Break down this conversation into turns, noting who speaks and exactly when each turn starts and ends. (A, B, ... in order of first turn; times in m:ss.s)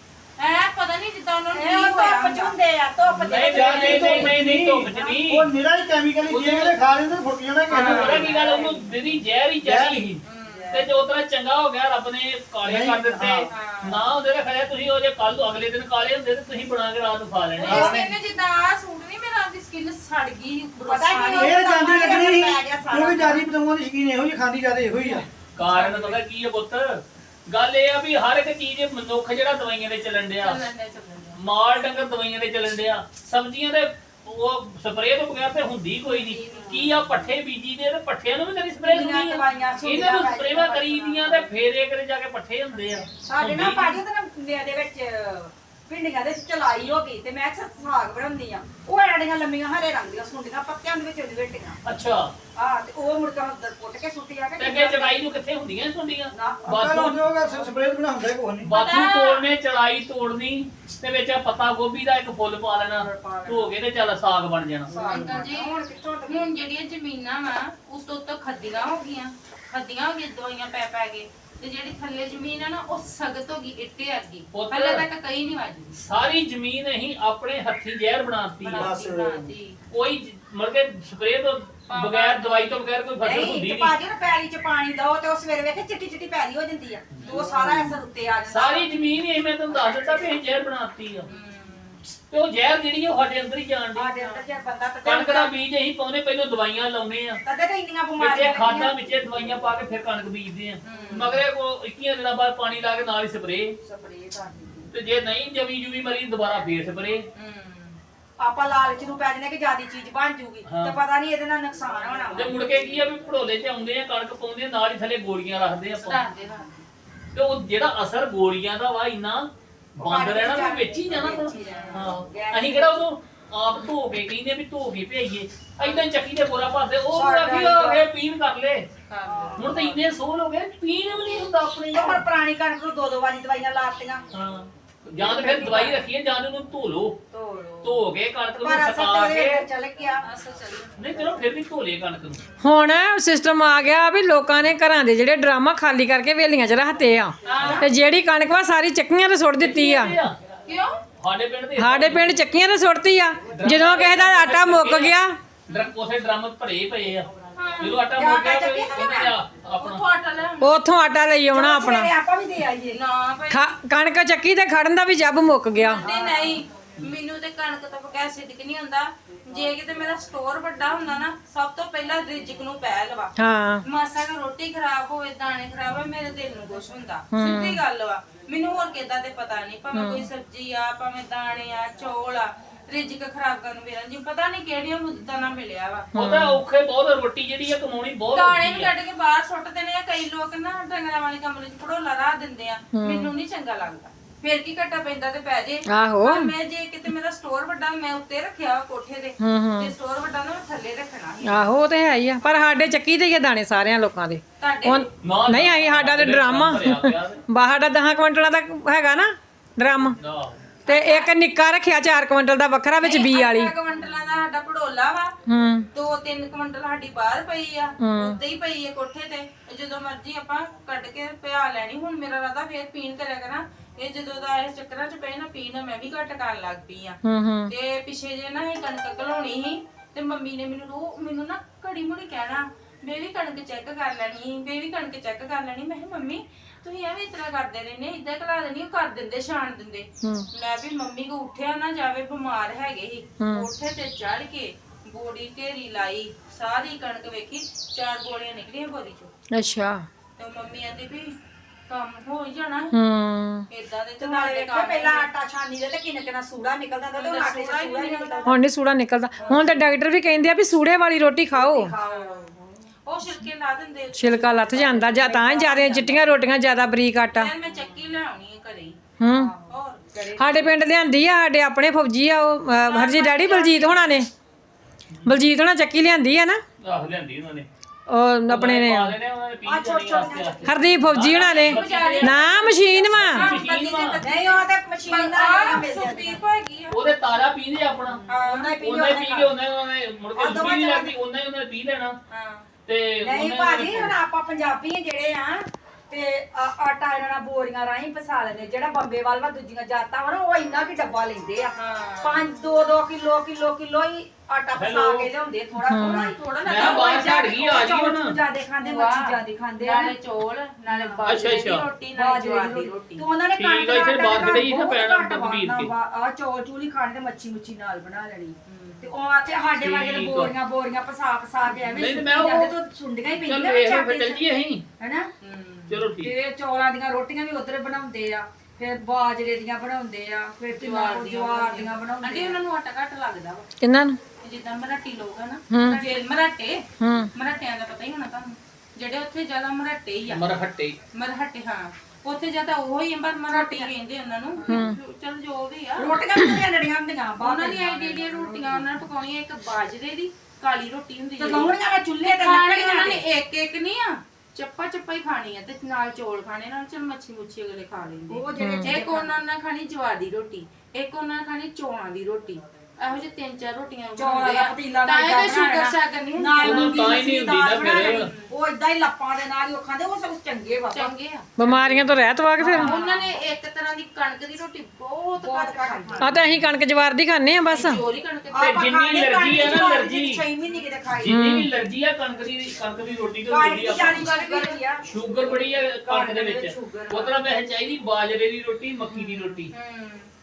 0:00.4-0:02.6 A
0:01.5-0:04.4 B
0:03.1-0:05.5 C
0:03.5-0:08.3 D
0:06.2-0:06.7 C
0:07.7-0:08.9 B
0:07.7-0:08.3 A
0:07.8-0:18.1 C
0:09.6-0:10.1 D
0:10.2-0:10.8 A
0:10.5-0:10.9 B
0:12.6-0:13.5 D
0:13.5-0:14.1 A
0:17.6-0:21.6 A
0:17.7-0:18.0 B
0:20.9-0:23.4 B
0:21.3-0:25.2 D
0:25.6-0:30.6 C
0:25.7-0:26.1 A
0:30.4-0:31.4 A
0:31.3-0:44.0 C
0:36.0-0:37.0 A
0:36.5-0:36.8 B
0:38.8-0:41.5 B
0:43.2-0:51.8 B
0:51.8-0:52.3 C
0:52.6-0:55.3 B
0:54.6-0:57.2 C
0:56.3-0:56.8 B
0:56.7-0:58.8 D
0:58.6-1:05.0 C
0:58.7-0:59.4 A
1:03.0-1:03.7 B
1:04.9-1:06.5 B
1:04.9-1:05.8 A
1:06.3-1:16.0 A
1:14.5-1:15.0 C
1:15.9-1:18.9 C
1:18.6-1:19.8 A
1:18.7-1:19.5 D
1:19.9-1:23.9 C
1:21.9-1:22.8 A
1:23.2-1:30.4 B
1:27.1-1:31.3 C
1:31.3-1:32.0 A
1:32.2-1:34.1 C
1:33.9-1:35.6 B
1:34.1-1:34.5 A
1:35.0-1:37.4 C
1:37.4-1:38.9 B
1:38.2-1:43.8 C
1:40.8-1:41.4 A
1:43.8-1:44.9 B
1:44.9-1:47.3 C
1:47.3-1:48.0 A
1:48.4-1:53.0 B
1:50.6-1:51.0 C
1:52.3-1:56.2 C
1:55.9-1:56.7 A
1:57.3-2:08.9 C
2:00.0-2:03.0 B
2:01.5-2:02.1 A
2:05.8-2:06.1 A
2:07.1-2:08.0 B
2:09.0-2:09.8 A
2:09.2-2:10.0 B
2:09.6-2:12.2 C
2:11.9-2:14.2 B
2:14.3-2:17.2 C
2:15.2-2:16.0 B
2:15.6-2:15.9 A
2:17.3-2:18.0 B
2:17.8-2:19.6 C
2:18.6-2:20.2 B
2:20.2-2:21.3 A
2:21.0-2:22.4 C
2:22.6-2:30.2 E
2:27.4-2:27.9 A
2:27.5-2:27.8 C
2:29.6-2:30.4 C
2:30.6-2:31.0 A
2:31.2-2:32.4 C
2:31.8-2:35.4 E
2:33.5-2:40.0 C
2:37.5-2:38.1 A
2:37.9-2:39.3 B
2:38.9-2:39.3 A
2:39.8-2:40.8 A
2:40.6-2:42.1 E
2:41.5-2:43.0 B
2:42.9-2:43.7 A
2:43.5-2:46.0 E
2:45.7-2:53.3 A
2:45.9-2:46.5 B
2:53.4-2:53.8 E
2:53.8-3:06.1 A
2:57.3-2:57.8 E
2:59.9-3:00.3 E
3:06.1-3:06.6 E
3:06.1-3:08.9 C
3:08.3-3:21.7 A
3:12.9-3:13.3 E
3:15.9-3:16.5 E
3:19.4-3:19.9 E
3:21.4-3:30.2 E
3:22.4-3:22.8 A
3:24.6-3:25.1 A
3:25.2-3:27.4 C
3:30.1-3:30.8 C
3:30.8-3:31.3 A
3:30.8-3:33.7 E
3:33.0-3:35.3 A
3:35.4-3:35.9 E
3:35.9-4:09.3 A
3:38.0-3:38.4 E
3:47.2-3:47.7 E
4:00.2-4:00.5 E
4:03.4-4:03.7 E
4:09.5-4:10.0 E
4:10.4-4:11.3 A
4:11.9-4:13.0 A
4:12.9-4:13.7 E
4:13.7-4:15.3 A
4:14.2-4:18.6 B
4:17.1-4:18.6 A
4:18.4-4:21.9 E
4:19.4-4:19.8 B
4:19.4-4:19.8 A
4:21.5-4:22.7 B
4:22.0-4:22.5 A
4:23.0-4:25.3 A
4:24.1-4:27.5 E
4:25.1-4:26.3 B
4:27.3-4:29.0 A
4:27.6-4:28.0 B
4:29.2-4:29.5 E
4:29.3-4:30.7 B
4:29.7-4:30.0 A
4:30.4-4:34.3 E
4:32.9-4:34.1 A
4:35.1-4:35.4 C
4:35.2-4:36.6 E
4:36.8-4:37.7 C
4:38.1-4:39.1 E
4:38.5-4:42.5 C
4:39.6-4:41.0 B
4:40.6-4:43.5 E
4:41.3-4:47.4 A
4:43.0-4:44.2 C
4:44.2-4:46.4 B
4:46.9-4:48.2 C
4:48.0-4:49.5 B
4:48.3-4:48.8 A
4:48.8-4:52.2 C
4:50.4-4:51.1 B
4:52.3-4:52.7 A
4:52.8-4:54.2 C
4:53.2-5:10.1 B
5:01.8-5:02.4 A
5:04.7-5:05.3 C
5:05.8-5:06.3 E
5:06.0-5:07.4 A
5:06.6-5:08.4 C
5:08.8-5:13.2 A
5:10.9-5:11.2 B
5:11.2-5:11.8 C
5:12.1-5:24.4 B
5:13.5-5:15.9 C
5:18.6-5:19.1 A
5:19.8-5:20.5 C
5:21.8-5:22.7 C
5:23.3-5:24.8 C
5:25.0-5:25.3 B
5:25.4-5:26.0 A
5:25.9-5:26.3 C
5:26.2-5:32.6 B
5:30.7-5:33.7 A
5:33.8-5:34.2 E
5:34.4-5:40.5 A
5:35.7-5:36.1 E
5:37.0-5:37.3 E
5:40.3-5:41.0 C
5:41.1-5:46.2 A
5:43.5-5:43.9 B
5:44.7-5:45.0 E
5:46.0-5:48.9 B
5:47.4-5:51.7 A
5:51.4-5:53.2 B
5:52.2-6:07.2 A
5:58.3-5:59.3 B
5:58.6-5:59.0 E
6:04.2-6:11.1 B
6:06.6-6:08.3 C
6:07.8-6:08.5 A
6:10.9-6:12.1 A
6:11.6-6:12.9 E
6:12.6-6:13.3 B
6:12.6-6:16.3 A
6:15.4-6:16.4 B
6:16.2-6:18.0 E
6:17.7-6:18.7 A
6:18.5-6:21.4 B
6:18.6-6:20.4 C
6:21.1-6:24.3 C
6:21.2-6:21.7 E
6:23.5-6:25.0 B
6:23.8-6:24.8 A
6:25.0-6:29.7 C
6:26.0-6:27.4 B
6:29.2-6:29.6 B
6:29.7-6:30.3 A